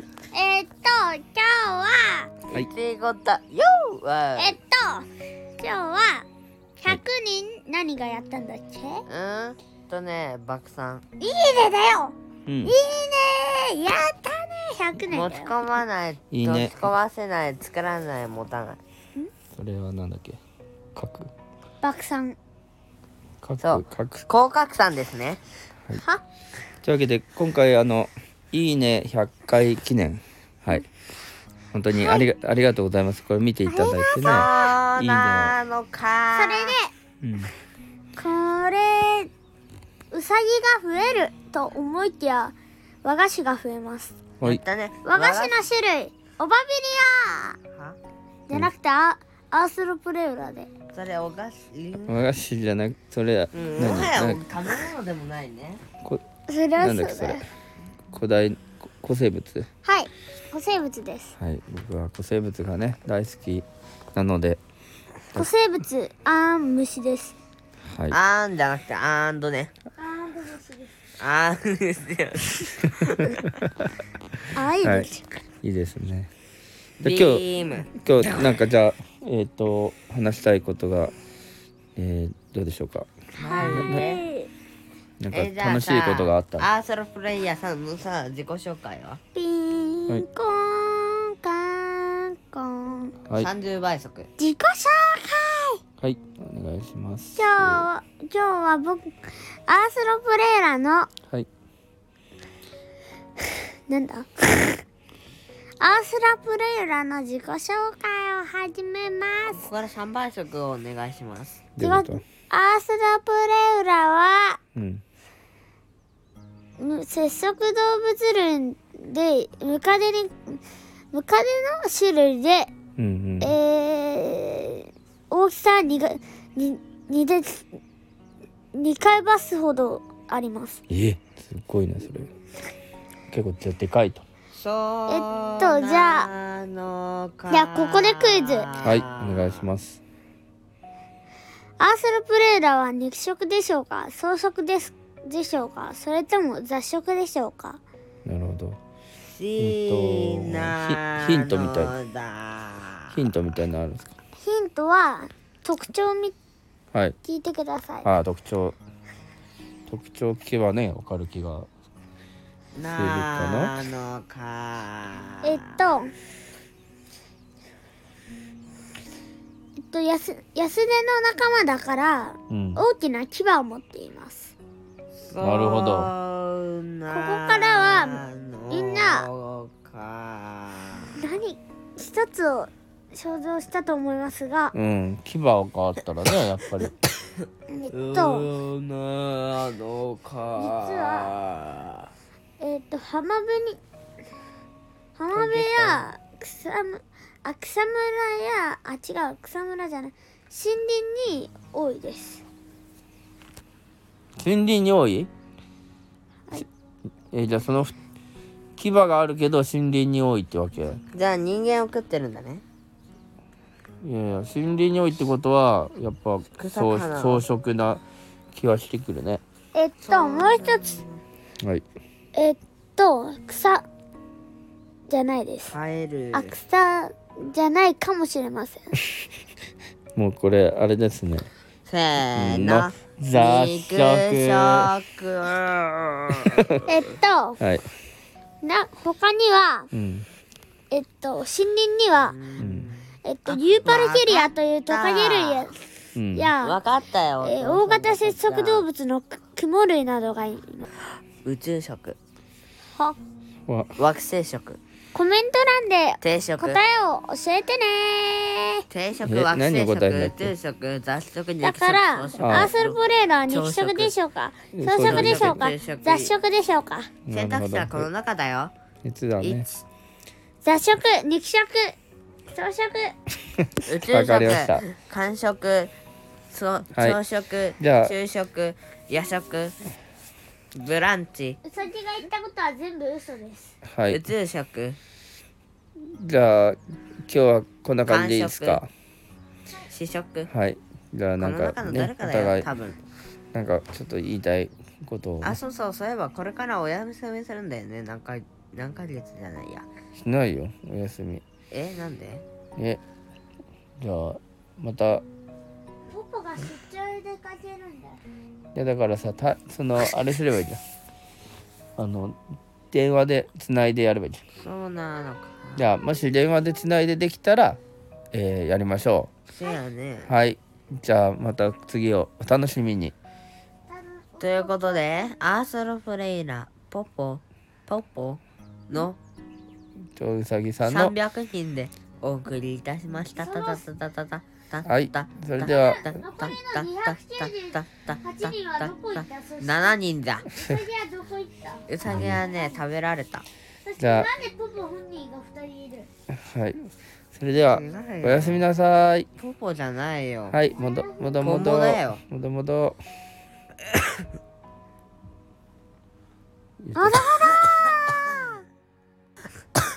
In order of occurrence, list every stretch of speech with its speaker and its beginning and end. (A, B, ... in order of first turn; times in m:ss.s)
0:00.3-0:02.3 A
0:02.5-0:04.6 B
0:04.4-0:09.0 A
0:09.1-0:11.0 B
0:11.2-0:15.5 A
0:12.5-0:12.8 C
0:15.1-0:18.8 B
0:16.3-0:16.8 C
0:19.5-0:20.4 C
0:21.0-0:21.3 C
0:21.8-0:22.4 A
0:23.4-0:24.3 C
0:23.6-0:25.4 B
0:26.0-0:26.2 B
0:26.8-0:30.9 C
0:31.7-0:35.6 C
0:31.9-0:32.3 A
0:33.7-0:34.7 A
0:34.2-0:36.7 B
0:36.4-0:36.9 A
0:37.2-0:37.5 C
0:38.2-0:39.3 A
0:40.1-0:44.2 A
0:44.4-0:45.6 B
0:45.0-0:47.6 A
0:48.5-0:50.7 A
0:50.9-0:52.2 B
0:52.1-0:54.4 C
0:53.5-0:55.8 B
0:56.5-0:57.4 A
0:56.8-0:57.4 C
0:58.1-0:59.7 C
0:59.8-1:01.4 A
1:01.4-1:04.6 C
1:05.3-1:07.4 A
1:07.8-1:08.2 C
1:08.1-1:09.7 B
1:10.0-1:10.9 A
1:11.2-1:13.4 B
1:14.5-1:15.2 A
1:14.8-1:15.1 C
1:15.6-1:16.3 C
1:17.0-1:17.9 B
1:17.0-1:21.1 C
1:22.0-1:23.1 C
1:23.4-1:24.2 B
1:23.4-1:24.5 A
1:23.7-1:24.1 C
1:25.2-1:26.7 C
1:25.3-1:29.2 B
1:29.4-1:33.2 A
1:33.4-1:34.3 B
1:34.4-1:35.8 A
1:36.0-1:37.9 C
1:37.4-1:41.1 A
1:43.9-1:44.8 A
1:45.8-1:49.6 A
1:49.5-1:51.6 B
1:51.8-1:52.2 C
1:51.8-1:54.6 A
1:54.8-1:55.0 C
1:56.8-2:00.6 A
2:01.1-2:02.7 A
2:03.0-2:03.6 C
2:03.4-2:07.7 A
2:08.7-2:10.8 A
2:10.9-2:12.3 C
2:13.3-2:14.2 C
2:14.5-2:19.7 B
2:15.1-2:16.3 A
2:17.5-2:18.8 A
2:18.8-2:20.0 C
2:21.8-2:27.8 A
2:28.2-2:28.8 C
2:29.3-2:33.2 B
2:29.6-2:31.9 C
2:33.1-2:34.1 C
2:34.4-2:36.4 A
2:37.2-2:38.1 A
2:38.0-2:38.8 C
2:39.9-2:41.7 C
2:42.8-2:45.6 B
2:42.9-2:43.7 C
2:45.4-2:46.1 A
2:49.8-2:54.6 A
2:52.5-2:52.8 C
2:55.2-3:01.2 B
2:55.4-2:56.1 C
2:57.1-2:59.3 A
3:01.2-3:04.8 A
3:04.7-3:06.9 C
3:07.7-3:08.5 A
3:07.9-3:12.1 B
3:10.6-3:11.3 A
3:12.6-3:13.8 A
3:15.2-3:22.4 A
3:15.3-3:16.1 B
3:24.4-3:25.3 C
3:27.3-3:28.0 C
3:28.8-3:31.0 C
3:31.1-3:32.6 B
3:34.0-3:38.0 C
3:36.5-3:37.5 B
3:38.5-3:39.4 C
3:39.7-3:41.0 A
3:40.0-3:41.2 B
3:41.6-3:41.8 C
3:42.3-3:43.9 A
3:45.1-3:45.8 A
3:45.7-3:46.5 B
3:46.3-3:48.9 A
3:50.2-3:51.5 C
3:51.9-3:56.8 B
3:52.4-3:54.9 C
3:56.5-3:56.9 C
3:56.9-3:57.6 A
3:57.6-3:57.9 C
3:58.6-3:59.9 A
3:59.9-4:00.3 C
4:00.9-4:02.4 A
4:02.2-4:05.7 B
4:02.6-4:02.9 C
4:03.2-4:05.7 A
4:06.2-4:06.5 C
4:06.3-4:06.8 A
4:06.6-4:08.9 B
4:07.4-4:10.8 A
4:11.4-4:12.2 B
4:13.7-4:14.0 C
4:14.0-4:14.8 B
4:15.1-4:18.8 A
4:16.2-4:16.8 B
4:18.9-4:24.1 B
4:19.2-4:20.5 C
4:21.6-4:27.1 A
4:22.4-4:22.7 C
4:24.7-4:25.7 C
4:25.0-4:26.3 B
4:27.3-4:28.1 C
4:27.3-4:28.7 B
4:29.0-4:29.7 C
4:29.4-4:29.8 B
4:30.6-4:33.2 A
4:33.9-4:35.9 B
4:34.1-4:34.8 C
4:36.5-4:39.8 B
4:37.8-4:38.2 C
4:40.7-4:41.6 B
4:41.6-4:43.7 A
4:43.9-4:44.2 C
4:44.1-4:45.0 B
4:46.0-4:48.9 C
4:48.1-4:48.8 B
4:49.9-4:50.5 B
4:50.5-4:52.7 C
4:51.4-4:53.0 B
4:53.5-4:55.6 C
4:55.4-4:59.9 B
5:00.2-5:01.4 C
5:01.7-5:02.4 B
5:04.0-5:05.2 C
5:06.1-5:08.2 A
5:08.8-5:10.8 C
5:12.0-5:12.4 C
5:12.9-5:14.4 C
5:14.6-5:15.9 B
5:15.8-5:17.8 C
5:18.3-5:19.3 C
5:19.5-5:20.3 B
5:20.3-5:23.1 C
5:23.9-5:25.4 A
5:24.4-5:29.2 B
5:30.2-5:31.2 C
5:30.8-5:40.5 B
5:33.4-5:33.8 A
5:34.9-5:36.0 C
5:35.6-5:42.7 A
5:41.9-5:43.5 B
5:42.1-5:42.4 C
5:43.8-5:46.1 A
5:44.0-5:44.3 C
5:46.4-5:49.3 C
5:47.7-5:48.6 B
5:49.4-5:50.6 B
5:50.5-5:53.0 C
5:50.7-5:51.5 A
5:51.4-5:52.2 B
5:56.8-5:57.2 C
5:57.0-5:58.6 A